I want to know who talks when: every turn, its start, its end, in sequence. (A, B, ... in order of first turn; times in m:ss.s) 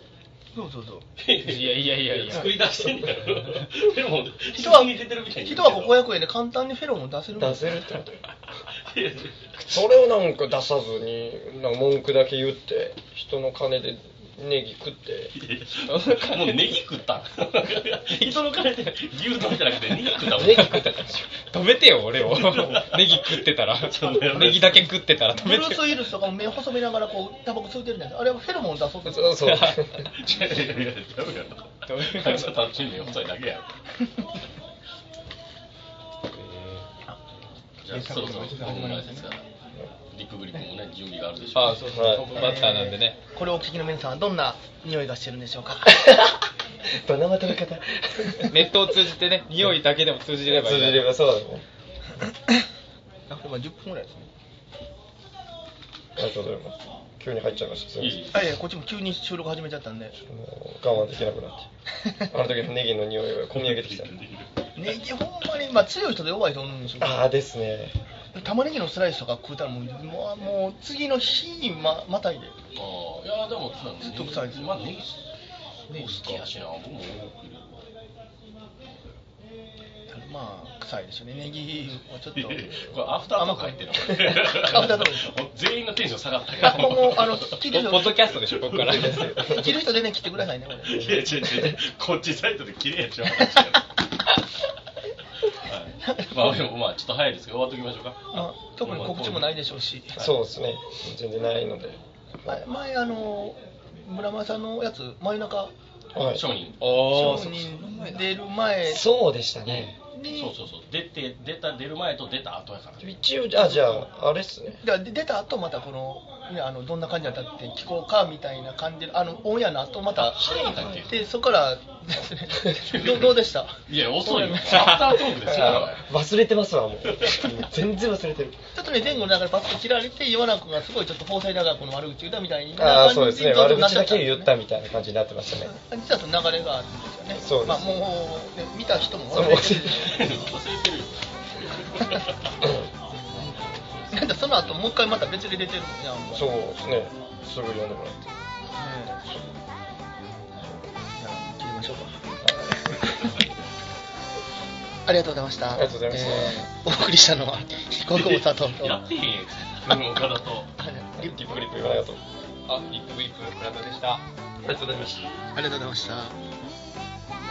0:00.5-0:01.0 A
0:01.2-0:06.1 B
0:01.4-0:02.5 C
0:04.5-0:07.8 A
0:07.4-0:08.2 D
0:08.8-0:09.6 B
0:09.6-0:15.3 D
0:15.4-0:20.8 B
0:15.8-0:16.6 C
0:20.3-0:21.3 D
0:20.4-0:20.8 C
0:21.5-0:25.9 C
0:22.2-0:24.9 B
0:25.3-0:29.7 A
0:29.0-0:30.1 D
0:29.4-0:29.9 C
0:30.1-0:33.7 B
0:31.9-0:32.6 C
0:36.3-0:36.9 C
0:37.8-0:39.4 B
0:37.9-0:39.3 A
0:40.1-0:42.6 B
0:41.5-0:43.2 C
0:41.9-0:42.4 D
0:42.3-0:45.9 A
0:45.9-0:49.1 D
0:48.5-0:51.1 C
0:50.5-0:51.6 D
0:53.3-0:54.3 A
0:56.2-0:58.3 D
0:58.0-0:58.5 B
0:58.3-1:00.2 A
1:00.2-1:01.6 D
1:02.3-1:04.2 D
1:03.6-1:04.6 B
1:04.8-1:07.2 A
1:07.0-1:08.0 D
1:08.3-1:12.5 A
1:12.8-1:15.2 B
1:14.0-1:15.0 A
1:15.9-1:16.4 C
1:15.9-1:17.8 B
1:20.1-1:25.3 A
1:22.3-1:29.3 B
1:26.6-1:28.4 A
1:27.7-1:29.6 C
1:28.8-1:29.7 D
1:29.4-1:31.4 A
1:30.8-1:33.9 B
1:35.6-1:39.6 B
1:36.0-1:36.6 A
1:38.3-1:40.3 A
1:40.2-1:42.6 D
1:42.5-1:45.7 A
1:46.1-1:46.4 D
1:46.3-1:46.8 B
1:46.8-1:48.4 C
1:47.0-1:49.0 A
1:48.9-1:49.9 D
1:49.6-1:53.1 B
1:50.1-1:50.5 A
1:53.0-1:54.8 D
1:53.6-1:54.1 A
1:54.8-2:03.8 A
2:00.1-2:01.1 B
2:00.7-2:01.0 D
2:02.9-2:06.0 B
2:04.3-2:04.8 A
2:04.6-2:05.1 C
2:05.4-2:08.6 D
2:07.1-2:07.4 B
2:08.8-2:14.5 A
2:12.8-2:15.7 D
2:15.6-2:20.2 A
2:17.4-2:18.0 D
2:19.3-2:20.2 D
2:19.9-2:22.7 B
2:23.3-2:23.6 A
2:23.4-2:24.3 B
2:24.1-2:26.6 A
2:26.3-2:28.3 D
2:28.8-2:29.3 A
2:31.1-2:32.2 A
2:32.4-2:33.3 D
2:35.1-2:39.0 A
2:35.7-2:36.6 D
2:38.1-2:40.7 B
2:40.8-2:41.3 A
2:41.2-2:42.2 D
2:42.7-2:44.2 C
2:44.6-2:45.2 D
2:45.5-2:46.4 A